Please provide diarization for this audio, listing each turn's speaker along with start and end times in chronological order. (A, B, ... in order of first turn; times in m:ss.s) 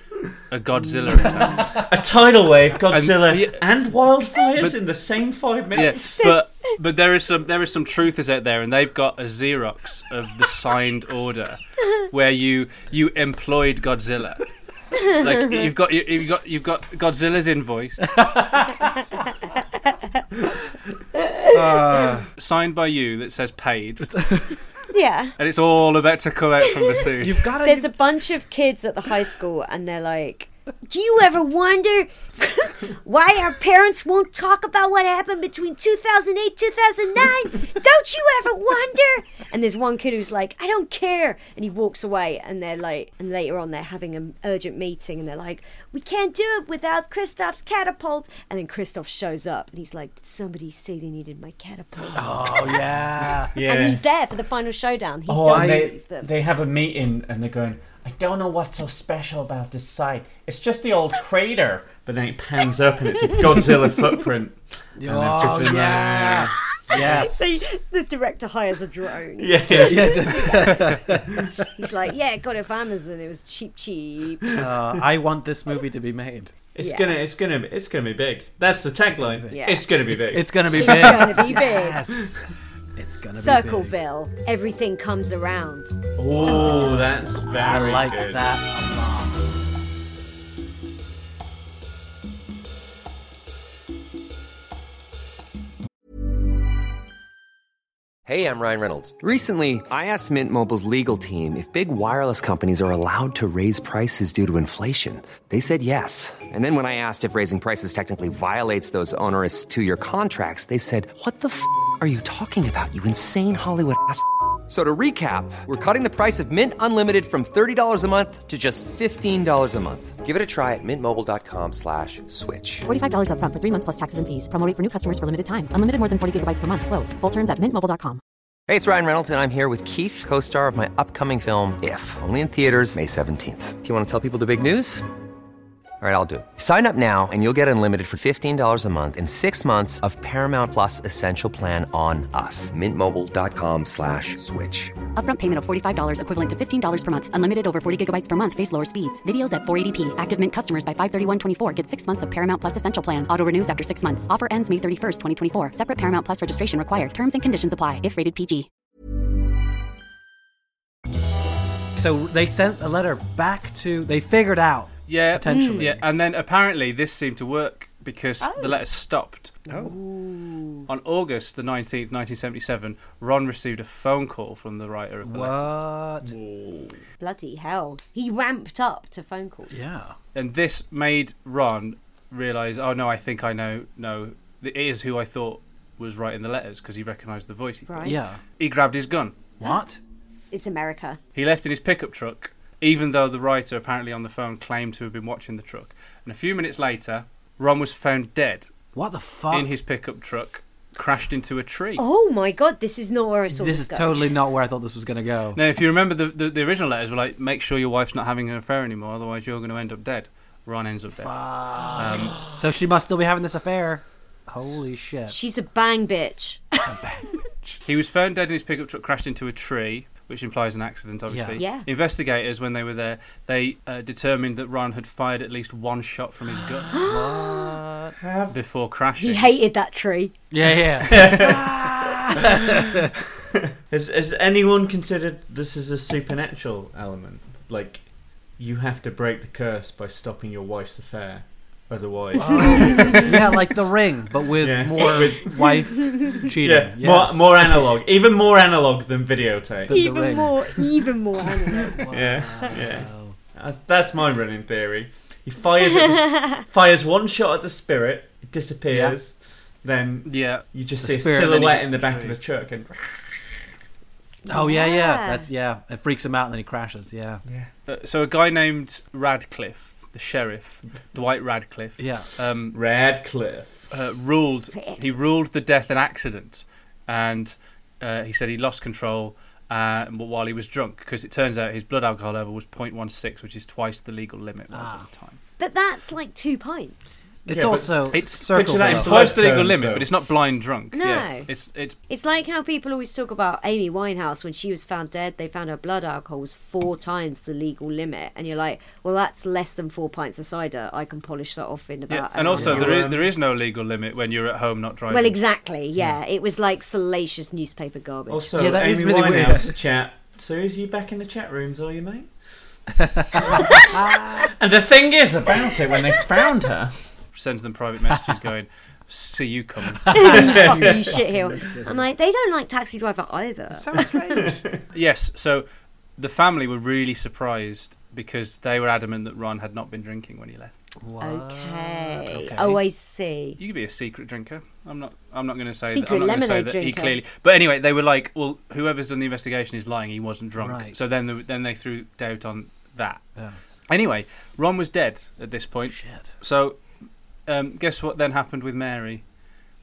0:00.5-0:01.8 A
0:01.4-0:01.7 B
0:01.8-0:06.3 C
0:02.9-0:03.6 A
0:05.7-0:14.4 A
0:15.0-0:18.0 A
0:18.1-0:18.9 B
0:21.5-0:22.3 B
0:22.2-0:24.1 A
0:24.0-0:24.6 B
0:24.9-0:25.3 D
0:25.4-0:27.4 A
0:27.2-0:27.9 B
0:27.6-0:56.3 D
0:52.0-0:52.8 C
0:52.1-0:53.6 B
0:53.5-0:54.0 C
0:55.3-1:07.2 C
0:55.4-0:55.9 B
1:05.0-1:07.4 B
1:07.0-1:10.8 D
1:09.4-1:10.7 C
1:09.7-1:11.7 B
1:11.7-1:14.5 D
1:14.4-1:14.7 C
1:14.5-1:16.5 B
1:16.7-1:21.1 C
1:16.8-1:17.1 D
1:19.2-1:19.6 B
1:19.5-1:19.8 D
1:20.1-1:22.4 B
1:20.7-1:22.0 D
1:23.0-1:24.0 B
1:23.3-1:25.9 D
1:26.2-1:28.4 C
1:26.3-1:29.5 B
1:38.2-2:02.9 E
2:02.8-2:08.2 F
2:08.7-2:15.0 E
2:16.0-2:25.0 E
2:25.2-2:38.7 F
2:41.9-2:46.0 B
2:45.1-2:49.6 A
2:45.5-2:45.9 D
2:48.4-2:48.8 D
2:49.7-2:50.8 D
2:49.7-2:50.0 B
2:50.9-2:55.8 A
2:55.2-2:56.3 B
2:56.2-2:57.0 C
2:57.2-2:59.8 D
2:59.7-3:00.1 B
3:00.3-3:09.4 A
3:07.9-3:08.2 D
3:08.0-3:08.4 B
3:09.6-3:10.0 B
3:10.5-3:11.2 D
3:11.3-3:18.7 A
3:18.9-3:19.7 B
3:19.5-3:22.0 A
3:22.0-3:24.2 D
3:23.5-3:25.6 B
3:25.5-3:31.4 A
3:31.1-3:35.4 B
3:31.9-3:32.4 A
3:35.3-3:36.8 D
3:36.8-3:37.8 B
3:37.8-3:46.9 A
3:41.3-3:41.6 B
3:41.6-3:41.8 D
3:46.9-3:47.8 D
3:47.0-3:48.2 B
3:48.2-3:48.6 C
3:48.5-3:49.5 A
3:49.2-3:50.3 D
3:50.5-3:53.1 B
3:51.0-3:52.9 C
3:53.9-4:03.4 C
4:02.3-4:07.9 B
4:02.6-4:03.3 D
4:04.6-4:09.9 C
4:09.9-4:10.8 B
4:09.9-4:12.0 D
4:11.8-4:13.4 B
4:12.0-4:23.2 C
4:18.9-4:19.2 B
4:20.2-4:20.6 A
4:21.0-4:21.6 B
4:21.3-4:22.4 A
4:24.4-4:25.5 D
4:24.5-4:27.4 B
4:27.9-4:32.8 A
4:32.0-4:32.3 B
4:32.7-4:33.9 C
4:33.9-4:45.4 A
4:34.7-4:35.1 D
4:44.7-4:45.1 B
4:45.6-4:47.2 D
4:47.4-4:49.5 B
4:47.5-4:50.1 C
4:48.1-4:52.0 A
4:50.9-4:51.5 D
4:52.1-5:02.9 D
5:02.1-5:05.4 A
5:02.6-5:03.3 C
5:05.1-5:08.5 D
5:08.3-5:12.3 C
5:08.6-5:09.8 B
5:13.0-5:14.5 B
5:13.4-5:16.9 C
5:13.5-5:13.9 D
5:17.3-5:20.6 A
5:20.0-5:22.0 B
5:20.1-5:24.2 D
5:20.3-5:21.1 C
5:23.7-5:24.6 B
5:24.4-5:24.6 C
5:24.9-5:25.6 A
5:26.2-5:30.7 A
5:31.0-5:32.8 B
5:31.2-5:33.6 D
5:33.6-5:43.2 A
5:35.9-5:37.2 D
5:40.6-5:40.9 B
5:43.9-5:46.8 A
5:45.9-5:46.3 B
5:47.5-5:49.2 A